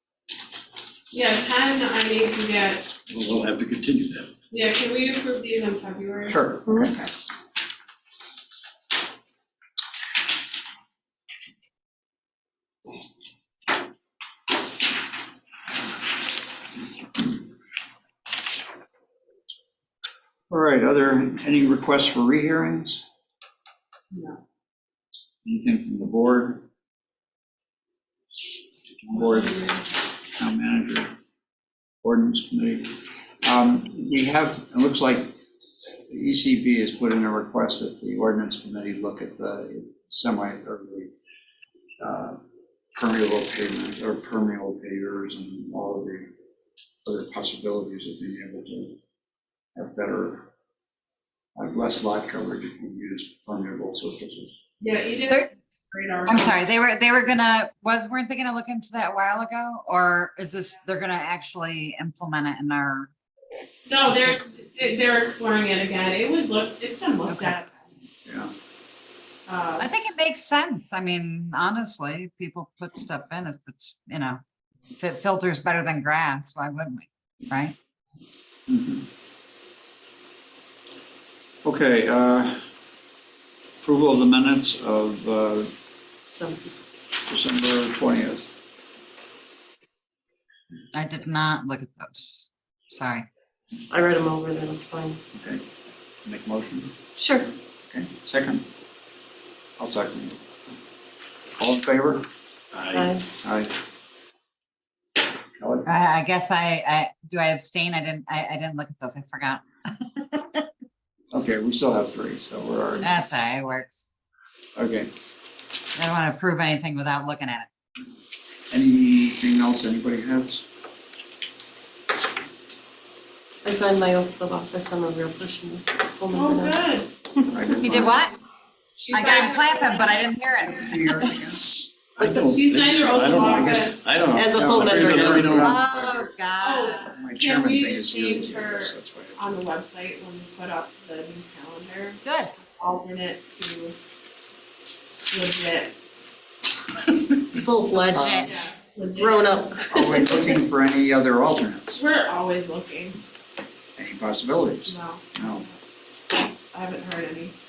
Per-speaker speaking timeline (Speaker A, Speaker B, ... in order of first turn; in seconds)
Speaker A: 1.1-2.9, 4.5-7.1, 24.1-24.4, 54.8-56.7, 63.9-67.7, 69.5-69.9, 126.3-127.1, 129.0-130.2, 132.2-134.2, 136.6-142.2, 142.8-144.0, 145.3-146.0, 148.5-149.7, 151.9-153.2, 154.9-155.8, 156.3-157.6
Speaker B: 3.1-4.3, 102.7-103.1, 132.2-135.7
Speaker C: 6.3-7.0, 20.5-23.0, 25.4-26.6, 29.0-29.6, 30.3-31.1, 32.0-32.9, 33.4-35.4, 36.1-41.1, 42.0-42.4, 42.9-46.3, 47.0-49.0, 49.7-50.5, 51.5-54.5, 68.2-68.5, 78.7-79.1, 81.6-82.7, 83.8-85.7, 87.2-88.6, 95.3-95.6, 96.2-96.9, 97.9-98.7, 99.8-100.4, 101.6-102.2, 103.4-103.7, 105.5-105.9, 111.3-113.1, 114.8-115.1, 118.7-120.7, 127.5-128.2, 130.7-131.8, 134.5-136.3, 137.1-139.4, 148.2-148.5, 149.9-152.0, 154.0-155.7
Speaker D: 6.7-6.9, 86.2-86.7, 93.9-95.2, 97.2-97.5, 102.9-103.2, 123.6-126.8, 132.2-132.6, 134.3-135.7, 147.5-148.5, 149.2-150.4
Speaker E: 56.3-63.1, 64.1-64.4, 67.3-67.6, 69.8-74.4, 75.0-77.8, 90.9-93.2, 105.8-110.6, 113.0-114.1, 115.9-117.7, 127.8-128.3, 129.1-131.1, 135.6-137.1, 142.2-142.5, 148.1-148.5